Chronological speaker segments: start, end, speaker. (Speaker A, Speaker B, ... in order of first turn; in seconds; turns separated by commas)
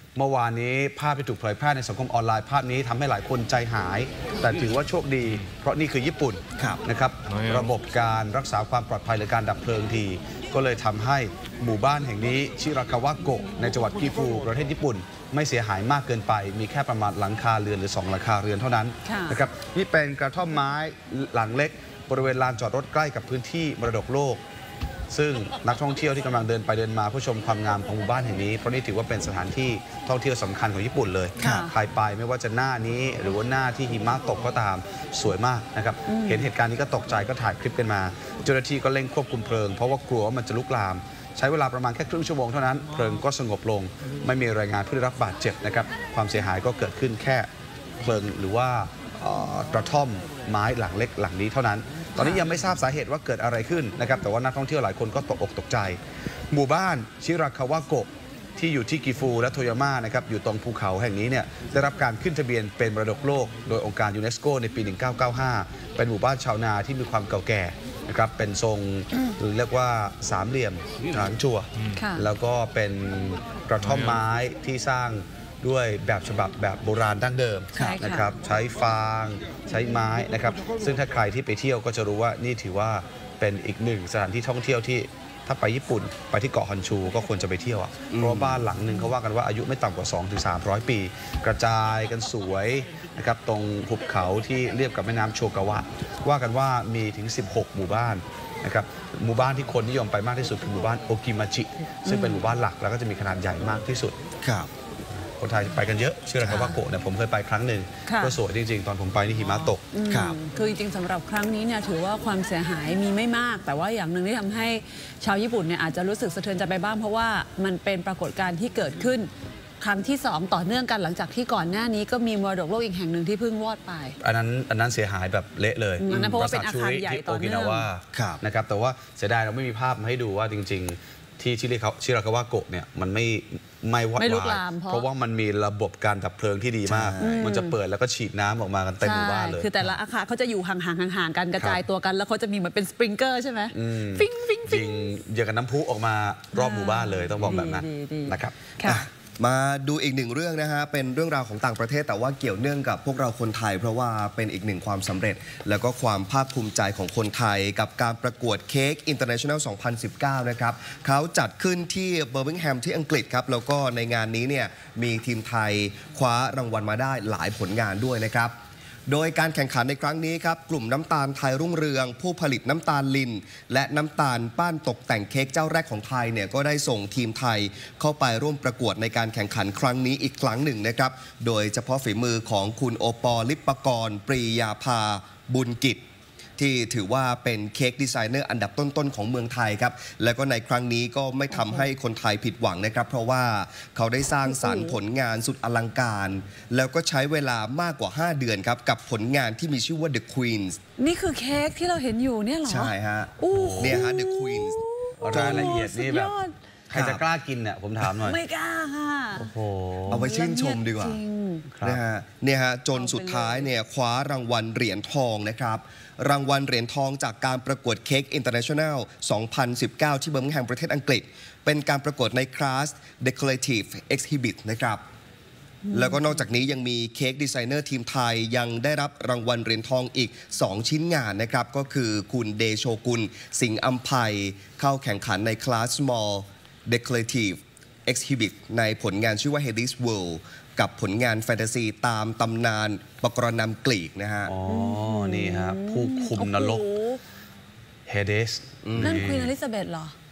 Speaker A: 0.1-24.4, Speaker B: 19.0-19.4, Speaker A: 25.1-47.5, Speaker B: 31.4-31.7, Speaker C: 31.4-31.7, Speaker B: 36.0-36.5, Speaker A: 48.0-56.0, Speaker B: 52.1-52.5, Speaker A: 56.5-104.2, Speaker B: 71.9-72.3, Speaker B: 77.7-78.3, Speaker C: 88.1-88.7, Speaker B: 102.0-102.4, Speaker C: 104.4-104.7, Speaker A: 105.2-109.8, Speaker B: 106.4-106.8, Speaker B: 108.0-108.4, Speaker B: 109.9-124.2, Speaker C: 110.1-110.3, Speaker A: 124.2-139.7, Speaker B: 126.0-127.9, Speaker C: 126.1-126.4, Speaker C: 128.1-128.4, Speaker B: 134.2-135.1, Speaker C: 136.9-137.3, Speaker B: 137.2-137.8, Speaker B: 139.0-145.1, Speaker A: 143.7-148.5, Speaker B: 146.5-149.1, Speaker C: 148.8-168.5, Speaker C: 169.1-186.0, Speaker C: 186.6-200.8, Speaker B: 191.5-191.8, Speaker B: 194.4-194.9, Speaker B: 201.0-206.5, Speaker C: 202.7-205.8, Speaker A: 203.5-204.0, Speaker A: 205.2-206.3, Speaker C: 206.9-207.2, Speaker A: 206.9-208.4, Speaker B: 208.0-209.5, Speaker A: 209.3-210.3, Speaker B: 210.1-211.7, Speaker C: 210.1-211.2, Speaker A: 211.7-212.0, Speaker C: 211.8-225.0, Speaker B: 212.9-213.7, Speaker B: 225.8-226.3, Speaker C: 225.9-244.5, Speaker A: 244.4-246.8, Speaker B: 244.7-247.2, Speaker A: 248.1-249.5, Speaker C: 248.8-249.2, Speaker B: 249.0-250.1